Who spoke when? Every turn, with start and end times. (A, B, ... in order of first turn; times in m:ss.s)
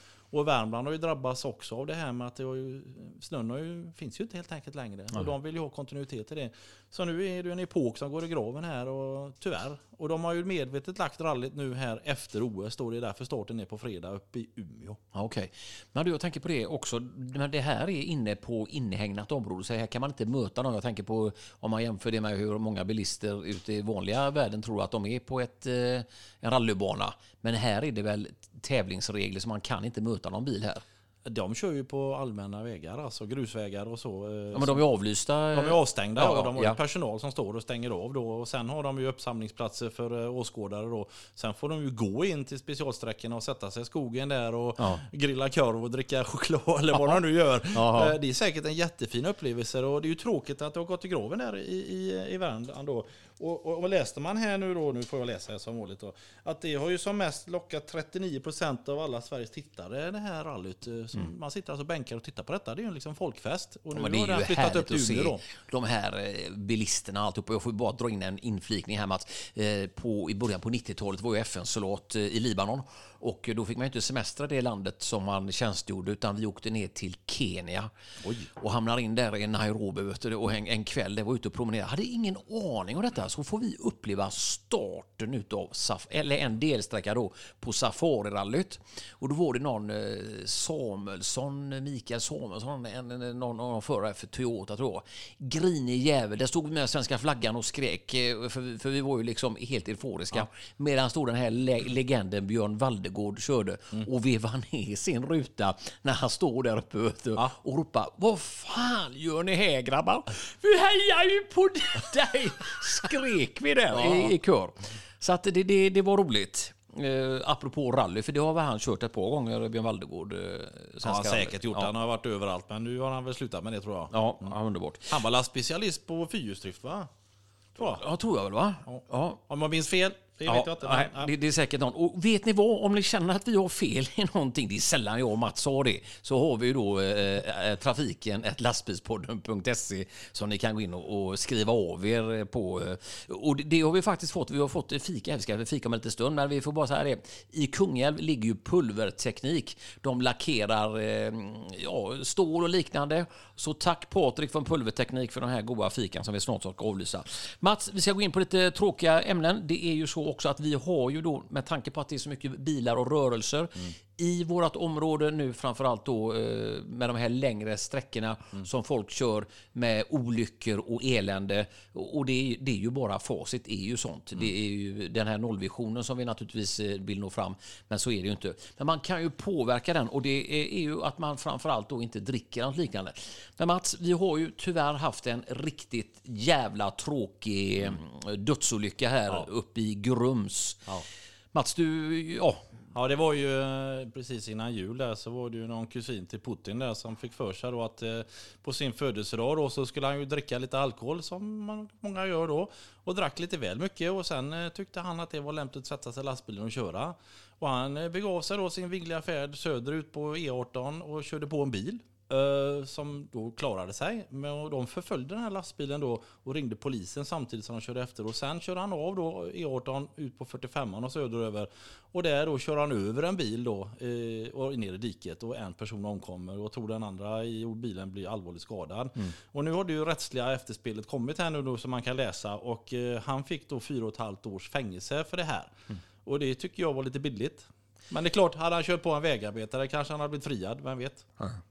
0:00.3-0:15.0 A
0:15.1-0:30.8 B
0:31.2-0:34.8 A
0:34.5-0:36.8 B
0:35.5-1:05.4 A
0:44.8-0:45.0 B
0:47.7-0:48.2 B
1:04.0-1:17.9 B
1:18.2-1:18.5 A
1:18.6-2:01.9 B
1:53.9-1:54.3 A
2:01.0-2:04.5 A
2:04.1-2:05.2 B
2:05.1-2:07.1 A
2:07.8-2:08.0 A
2:07.8-2:09.4 B
2:08.9-2:11.3 A
2:10.4-3:10.8 B
3:11.5-3:12.6 B
3:12.9-4:01.3 A